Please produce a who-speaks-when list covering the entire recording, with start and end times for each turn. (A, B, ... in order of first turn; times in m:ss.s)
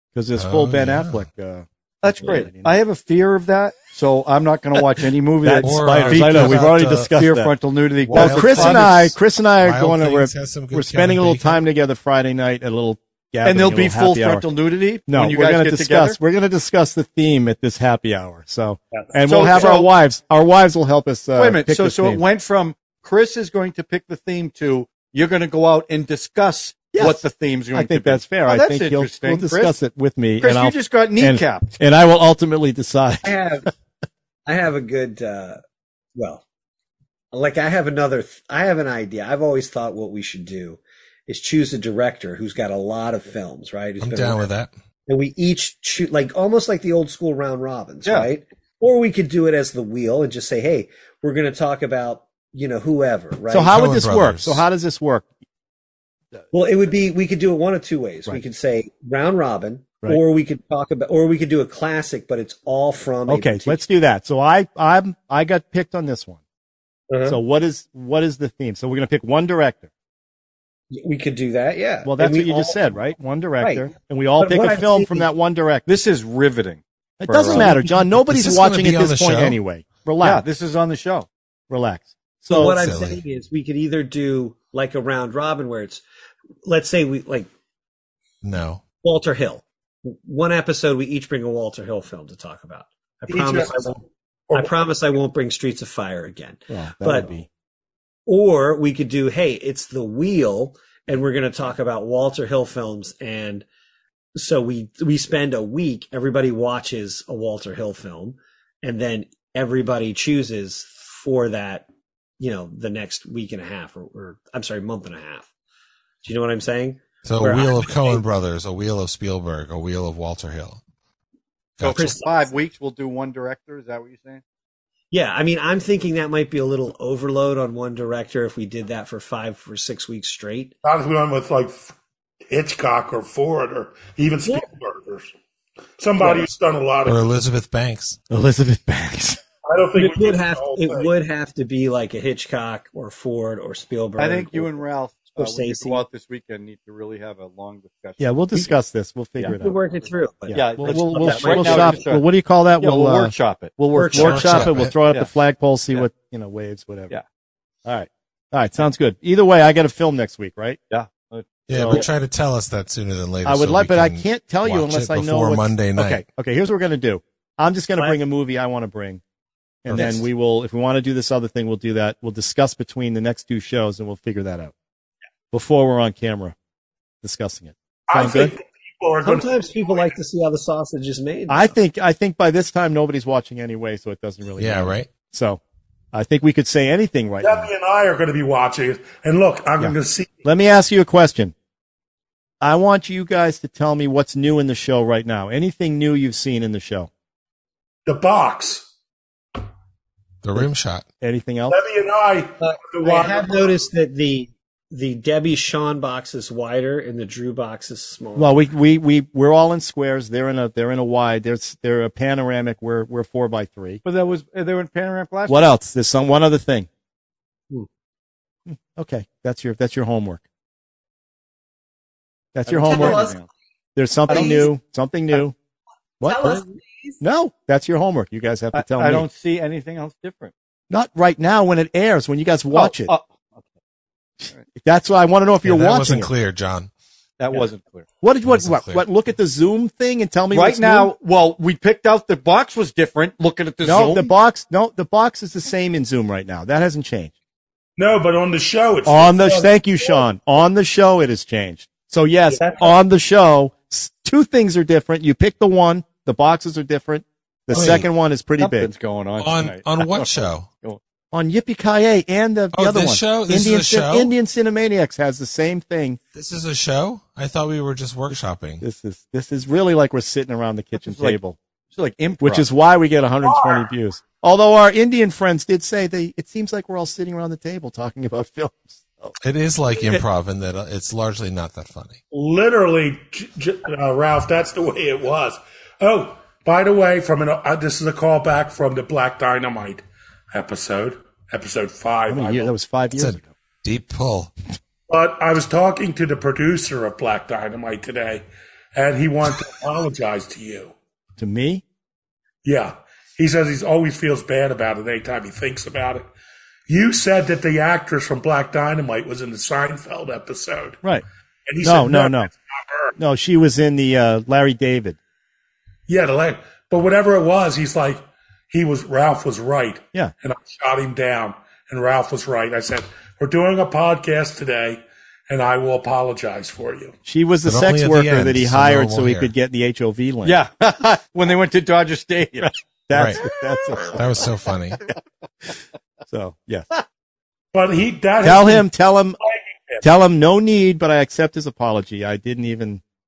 0:00.1-0:02.8 A
0:00.4-0:01.2 B
0:02.0-0:09.1 C
0:05.4-0:07.5 A
0:05.6-0:07.1 B
0:08.1-0:14.4 A
0:08.1-0:11.6 B
0:13.4-0:16.2 C
0:15.1-0:22.2 A
0:19.2-0:19.9 C
0:21.4-0:29.7 C
0:26.9-0:33.3 A
0:30.4-0:31.8 C
0:33.2-0:33.7 D
0:34.4-0:35.6 D
0:36.1-0:36.4 D
0:37.3-0:44.5 D
0:44.0-0:44.7 B
0:45.1-0:53.8 D
0:53.5-0:55.3 A
0:53.7-0:54.6 B
0:56.5-1:03.8 D
1:03.3-1:06.4 A
1:07.1-1:07.4 D
1:07.2-1:09.9 A
1:10.9-1:13.0 D
1:12.0-1:15.8 A
1:13.6-1:15.3 D
1:15.8-1:17.8 C
1:17.2-1:20.4 A
1:17.5-1:19.6 B
1:20.2-1:21.3 C
1:21.7-1:22.8 A
1:22.5-1:26.0 D
1:22.6-1:23.2 B
1:26.6-1:27.5 D
1:28.4-1:28.8 B
1:29.0-1:34.0 D
1:33.3-1:33.8 E
1:34.5-1:37.3 D
1:36.7-1:37.5 A
1:38.2-1:43.6 D
1:44.4-1:51.8 D
1:52.4-1:55.5 D
1:56.2-1:58.2 D
1:57.2-2:00.8 B
2:01.8-2:02.2 B
2:01.8-2:04.4 C
2:01.9-2:02.4 D
2:05.1-2:10.7 D
2:10.8-2:11.9 E
2:12.5-2:15.3 E
2:16.0-2:17.3 E
2:16.2-2:16.4 D
2:17.0-2:18.2 B
2:18.3-2:19.4 A
2:19.7-2:21.1 E
2:20.0-2:24.8 D
2:24.2-2:28.7 C
2:25.3-2:26.0 D
2:28.2-2:29.8 A
2:29.5-2:32.0 D
2:30.5-2:32.2 C
2:30.6-2:33.3 A
2:32.8-2:35.3 C
2:33.9-2:37.1 A
2:33.9-2:34.5 D
2:34.2-2:34.9 B
2:37.8-2:40.8 A
2:40.9-2:42.0 C
2:41.7-2:42.0 A
2:41.7-2:46.2 B
2:43.4-2:49.2 A
2:49.8-2:54.7 A
2:55.5-2:56.6 A
2:57.2-2:58.6 A
2:58.1-3:00.1 E
2:59.2-3:01.8 D
3:01.5-3:05.6 A
3:04.6-3:05.1 B
3:06.1-3:07.7 A
3:07.4-3:10.4 E
3:09.8-3:11.5 A
3:12.6-3:17.1 A
3:18.0-3:18.9 E
3:20.4-3:21.0 B
3:21.2-3:21.8 A
3:21.7-3:23.7 E
3:22.6-3:28.7 D
3:28.4-3:34.0 A
3:34.0-3:35.7 C
3:35.5-3:36.9 A
3:38.7-3:40.4 A
3:42.5-3:43.3 A
3:42.6-3:43.5 C
3:42.8-3:43.4 F
3:44.0-3:45.6 A
3:44.3-3:44.7 C
3:44.3-3:44.7 F
3:46.2-3:46.6 A
3:46.2-3:47.2 F
3:47.2-3:49.2 A
3:48.7-3:50.5 C
3:50.9-3:53.1 A
3:52.7-3:53.6 C
3:54.8-3:56.3 A
3:55.6-3:56.9 B
3:57.4-3:58.1 C
3:58.2-4:01.1 A
3:58.4-3:59.0 B
4:00.5-4:04.3 C
4:03.8-4:07.3 A
4:08.0-4:10.2 E
4:09.0-4:18.9 A
4:17.7-4:18.0 B
4:18.6-4:21.0 C
4:19.4-4:20.7 B
4:21.3-4:26.2 A
4:22.7-4:24.3 B
4:26.3-4:28.8 B
4:28.8-4:31.6 A
4:31.0-4:31.4 C
4:31.9-4:32.7 C
4:32.4-4:39.3 A
4:33.4-4:33.8 E
4:39.4-4:42.2 B
4:42.3-4:52.7 E
4:52.3-4:53.5 A
4:53.1-4:54.5 B
4:55.1-4:58.4 E
4:58.9-5:00.9 E
5:01.4-5:01.8 A
5:02.6-5:06.3 E
5:06.9-5:11.0 E
5:11.7-5:13.1 E
5:11.8-5:12.5 A
5:13.2-5:15.2 A
5:16.1-5:27.1 E
5:27.2-5:30.6 A
5:27.6-5:29.5 B
5:30.4-5:32.7 C
5:32.6-5:34.5 A
5:33.1-5:33.4 B
5:33.9-5:34.2 C
5:34.1-5:35.1 B
5:36.3-5:36.9 A
5:37.7-5:38.9 E
5:38.4-5:39.4 A
5:39.4-5:40.1 E
5:40.0-5:43.0 A